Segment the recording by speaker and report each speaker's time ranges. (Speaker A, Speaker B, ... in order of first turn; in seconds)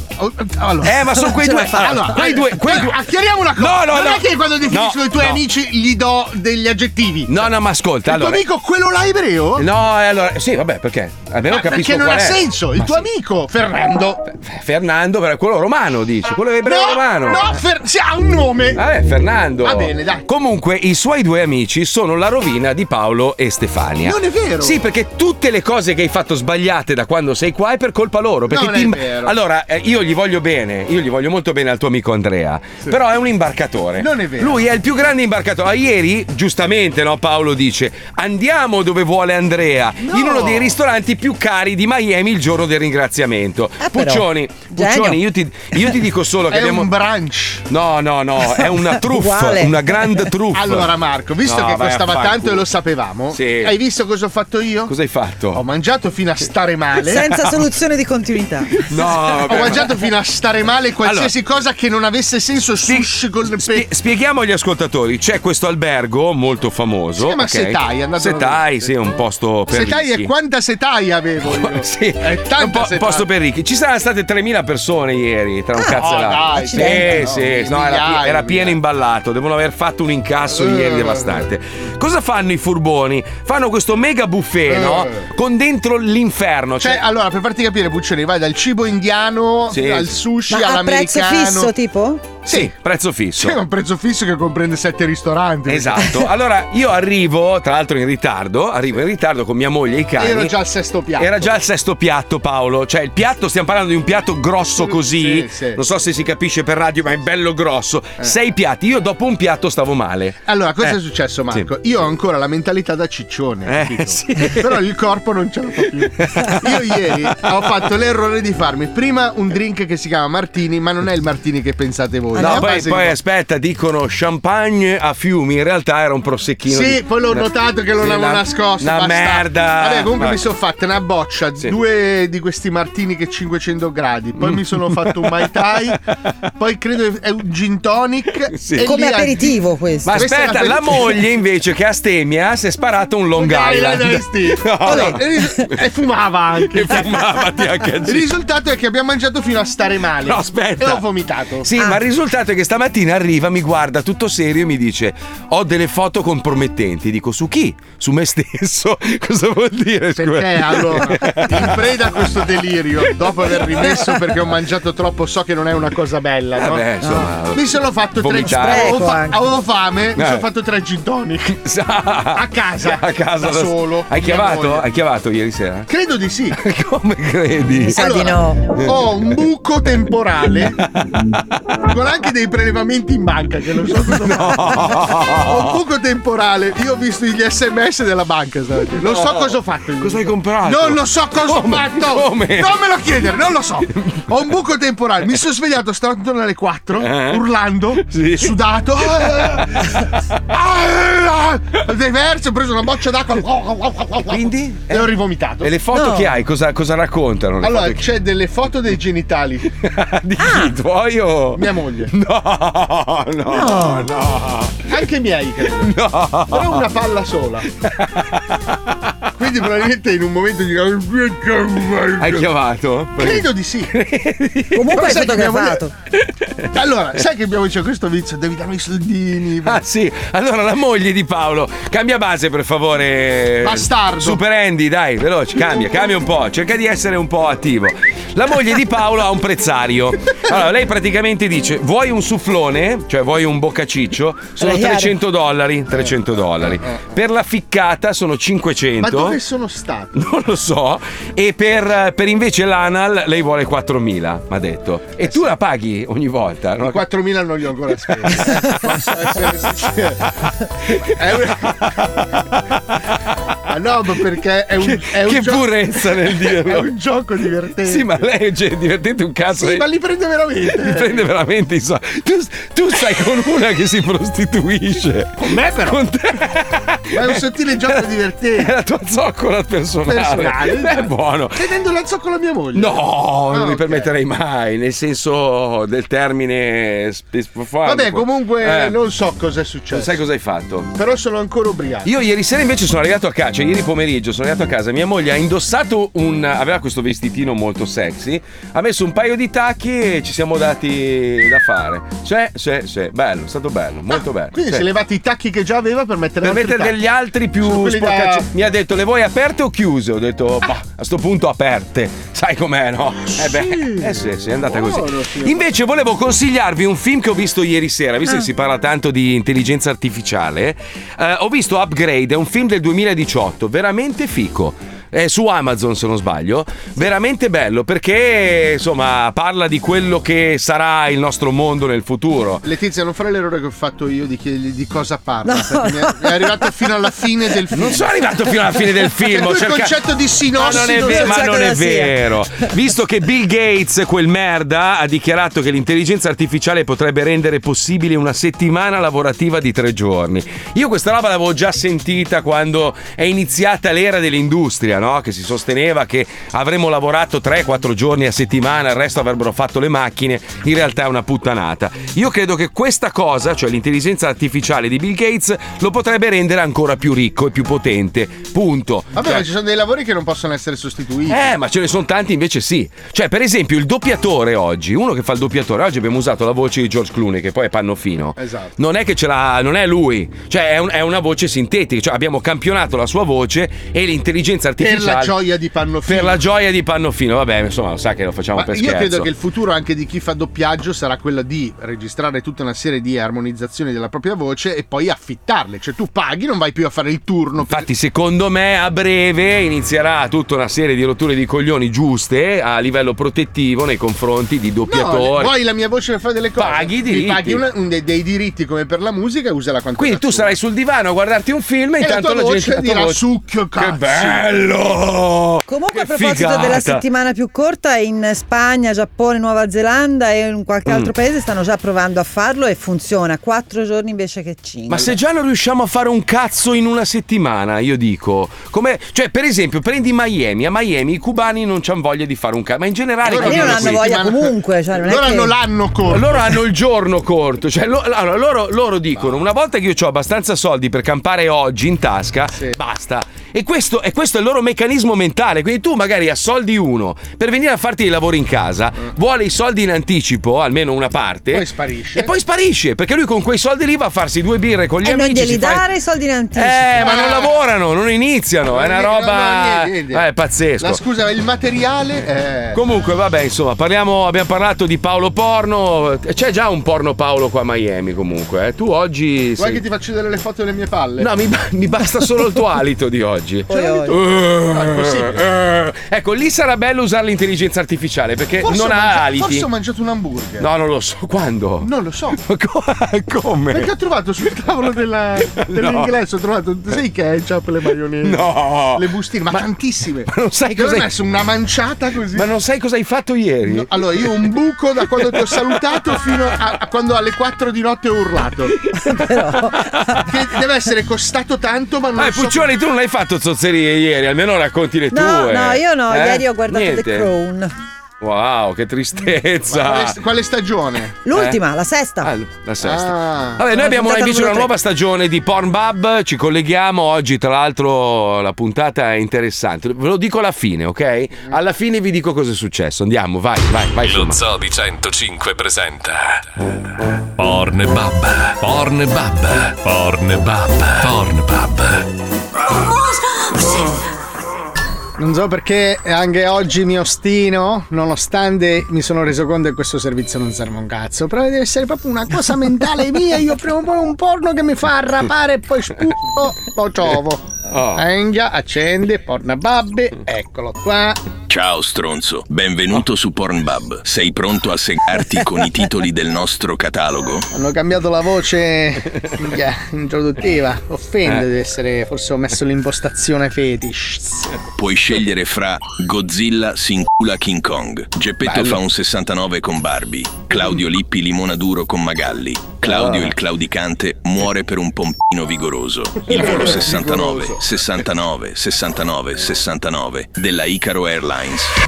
Speaker A: 0.2-1.0, 1.7-7.5, 8.1-9.7, 11.5-14.2, 16.6-18.8, 19.6-20.3, 24.1-24.8, 28.5-29.3, 34.0-34.6, 40.1-40.7, 46.5-47.6, 50.5-54.9, 55.5-57.3, 59.5-63.9, 67.2-68.9, 69.7-73.3, 75.9-78.8, 80.5-81.5, 84.7-85.3, 86.8-91.7, 93.4-96.2, 100.2-101.5, 104.8-105.8, 110.5-123.2, 126.7-136.0, 136.6-139.6, 140.1-141.3, 143.3-147.2, 148.1-151.7, 160.2-166.9, 167.5-171.5, 172.3-174.9, 175.9-176.6, 178.0-180.8, 181.8-200.0, 200.5-205.7, 207.6-209.7, 211.6-212.1, 214.9-215.9, 216.5-217.7, 219.4-222.5, 223.2-223.9, 224.9-225.8, 226.8-229.8, 233.6-234.4, 246.6-247.1, 249.0-250.3, 256.8-260.3, 261.0-262.1, 263.7-268.1, 269.6-271.2, 275.4-276.0, 277.1-278.7, 280.1-283.0, 283.5-284.1, 287.9-290.2, 290.9-292.1, 304.1-307.0, 307.6-308.5, 313.3-315.7, 332.6-338.0, 339.3-341.4, 369.1-371.5, 378.4-378.7, 384.8-386.4, 388.6-397.9, 404.9-410.5, 412.0-414.5, 433.3-436.6, 451.5-452.3, 457.0-457.6, 458.7-460.3, 460.8-462.8, 469.6-471.3, 473.8-474.1, 474.7-475.4, 478.6-480.7, 481.8-482.4, 483.7-492.5, 493.7-498.8, 500.3-502.7, 509.7-511.2, 512.8-513.6
Speaker B: 0.8-3.1, 3.6-5.4, 7.3-8.4, 9.6-13.0, 14.2-17.4, 18.8-46.9, 47.7-50.9, 51.5-52.6, 53.3-53.8, 54.9-55.6, 58.9-60.0, 61.0-61.3, 62.9-70.3, 71.4-87.0, 89.7-90.1, 92.5-93.6, 95.7-100.5, 101.2-110.9, 113.7-114.8, 116.2-116.7, 122.4-130.4, 134.4-136.3, 138.5-139.0, 140.0-145.2, 146.7-148.3, 150.3-151.1, 151.6-162.2, 163.5-164.2, 166.6-169.2, 170.2-170.4, 171.5-175.9, 176.6-178.0, 180.8-181.4, 183.9-185.7, 189.0-192.8, 193.9-194.3, 197.0-197.4, 198.0-198.6, 204.3-208.0, 209.8-214.9, 215.8-216.8, 217.8-218.4, 222.2-225.1, 226.4-226.7, 229.7-249.4, 250.1-257.0, 258.2-258.8, 260.9-261.9, 264.8-266.9, 267.9-269.9, 270.7-278.1, 278.6-281.6, 282.7-289.0, 289.9-290.9, 292.1-304.9, 306.4-332.6, 337.7-340.0, 340.6-369.5, 371.3-385.4, 386.1-389.3, 397.7-405.5, 406.6-407.6, 410.0-413.2, 413.8-417.0, 420.9-421.1, 424.9-434.1, 436.1-455.9, 456.6-461.0, 462.7-469.8, 471.2-479.7, 480.6-483.9, 485.6-486.1, 488.2-489.6, 490.3-491.1, 492.4-494.3, 495.2-496.2, 499.7-500.3, 502.2-507.3, 508.2-510.2, 511.3-511.6, 512.2-524.4, 547.7-548.0, 568.5-568.8
Speaker C: 1.2-2.0, 43.8-45.2, 48.5-50.2, 57.0-58.9, 59.5-59.8, 76.7-77.1, 90.5-92.4, 122.3-122.7, 138.8-140.3, 144.9-145.2, 167.0-167.3, 168.4-169.4, 177.9-178.8, 205.9-206.3, 210.4-210.7, 213.5-214.1, 224.7-225.9, 244.6-245.1, 335.4-336.8, 340.6-342.2, 415.7-425.1, 433.2-435.6, 455.0-457.2, 473.7-474.2, 499.0-500.2, 505.1-507.7, 511.2-512.3, 513.7-514.7
Speaker D: 524.0-526.5, 527.4-532.1
Speaker E: 535.2-551.2, 557.5-564.5
Speaker F: 551.5-557.5, 564.8-581.8